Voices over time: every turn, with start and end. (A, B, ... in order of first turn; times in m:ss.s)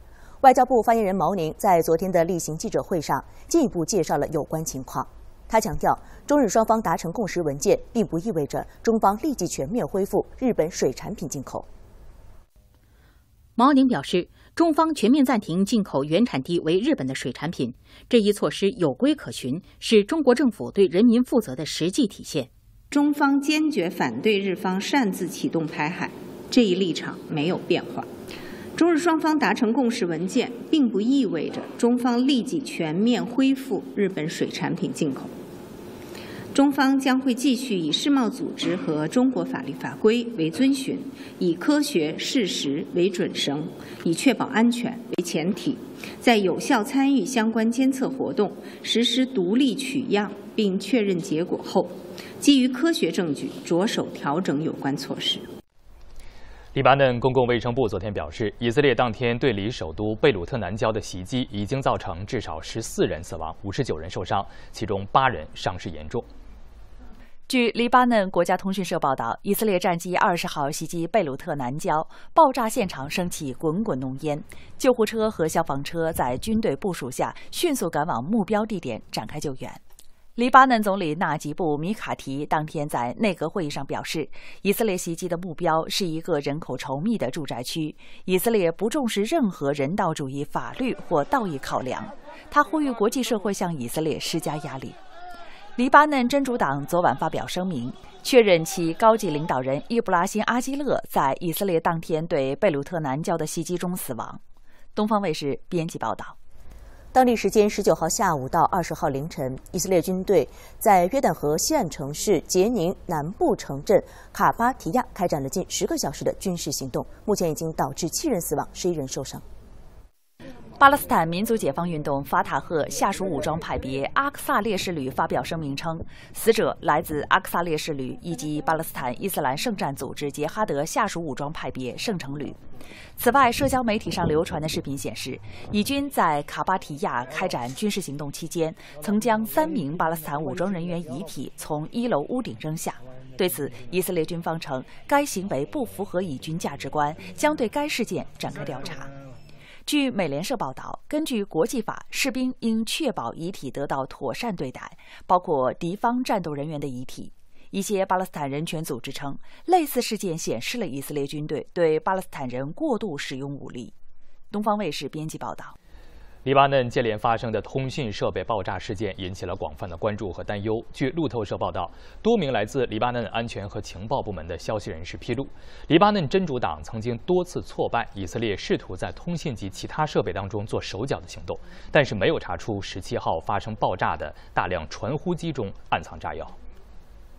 0:00.4-0:11.7 A
0:13.6-0:22.5 B
0:22.9-0:28.1 C
0:28.7-0:35.3 C
0:36.5-0:55.5 C
0:56.7-1:06.3 D
1:07.5-1:19.8 E
1:20.4-1:35.0 E
1:35.8-1:44.4 E
1:45.0-1:46.3 E
1:47.1-1:59.4 A
2:00.8-2:12.6 E
2:13.2-2:29.1 E
2:29.8-2:43.9 E
2:44.5-2:45.7 E
2:46.4-3:06.6 D